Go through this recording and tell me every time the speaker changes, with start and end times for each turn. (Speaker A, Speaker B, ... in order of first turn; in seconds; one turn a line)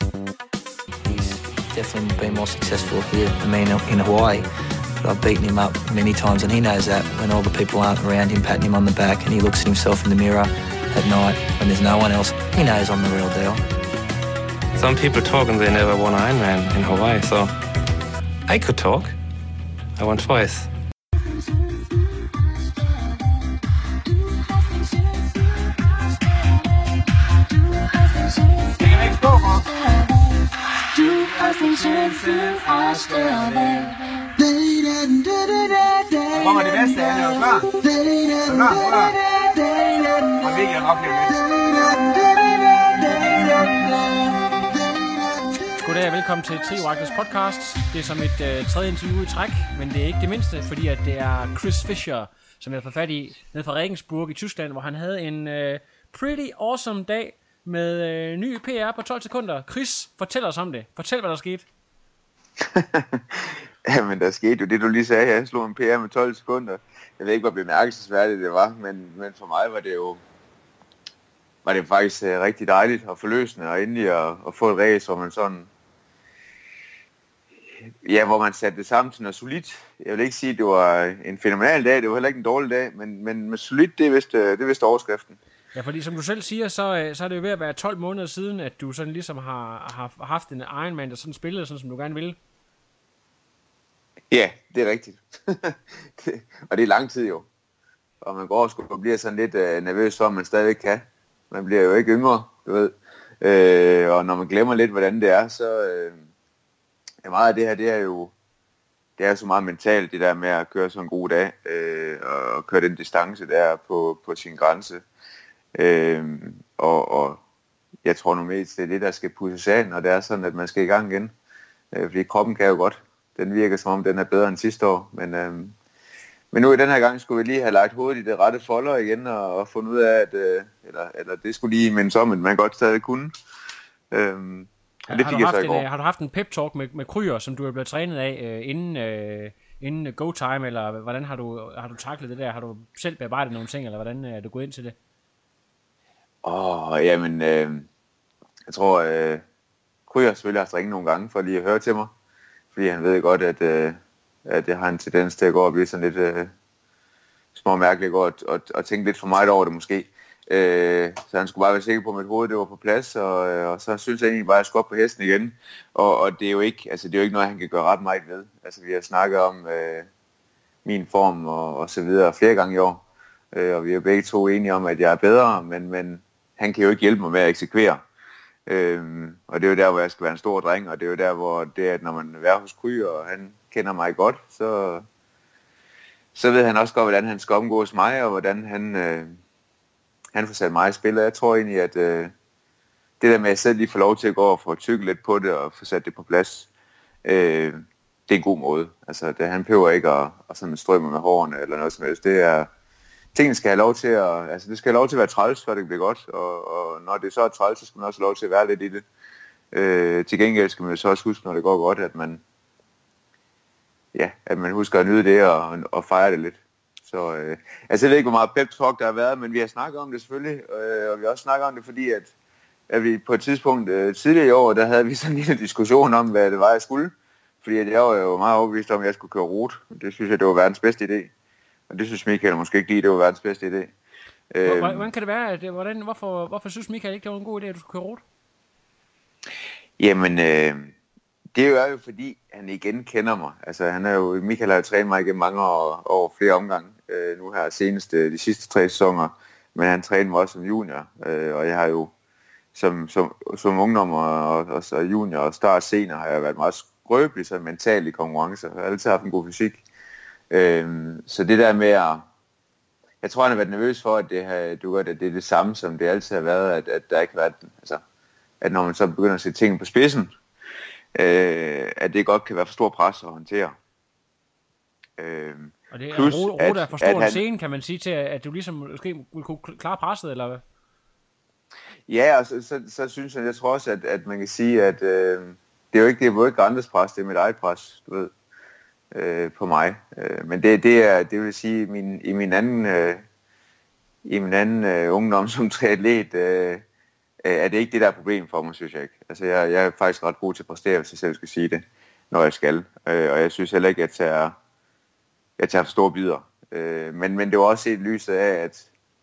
Speaker A: 1.0-4.5
Speaker A: 5.0-13.6
Speaker B: 14.7-17.5
Speaker B: 18.5-19.1
Speaker B: 19.9-20.7
Speaker C: 28.8-29.8
Speaker C: 31.0-33.9
Speaker C: 36.3-37.7
Speaker C: 38.3-39.2
Speaker C: 40.3-41.4
Speaker C: 43.3-43.8
Speaker D: 45.8-61.6
Speaker C: 62.6-70.2
Speaker C: 71.6-75.7
Speaker C: 77.8-85.4
Speaker D: 85.7-92.4
Speaker C: 94.3-97.5
Speaker C: 98.2-106.2
Speaker C: 107.2-108.3
Speaker C: 109.2-115.0
Speaker C: 115.7-117.4
Speaker C: 118.0-121.3
Speaker C: 121.9-125.7
Speaker C: 126.5-133.3
Speaker C: 134.1-135.8
Speaker D: 135.1-144.9
Speaker C: 146.4-147.9
Speaker C: 148.7-149.4
Speaker C: 150.1-152.1
Speaker C: 152.7-156.5
Speaker C: 157.5-170.1
Speaker C: 170.8-178.0
Speaker C: 178.7-185.1
Speaker C: 186.3-189.4
Speaker C: 190.3-192.3
Speaker C: 193.2-196.7
Speaker C: 197.2-202.7
Speaker C: 203.3-209.1
Speaker C: 209.7-212.4
Speaker C: 214.1-222.3
Speaker C: 222.9-231.3
Speaker C: 231.9-233.9
Speaker C: 234.5-235.1
Speaker D: 234.6-238.2
Speaker C: 240.0-240.9
Speaker C: 241.5-252.1
Speaker C: 252.7-259.8
Speaker C: 260.5-262.3
Speaker C: 263.2-268.0
Speaker C: 268.6-270.3
Speaker C: 271.1-273.8
Speaker C: 275.2-277.4
Speaker D: 275.9-280.6
Speaker C: 282.1-288.3
Speaker C: 289.1-293.2
Speaker C: 294.2-296.8
Speaker C: 297.4-304.6
Speaker C: 305.6-308.9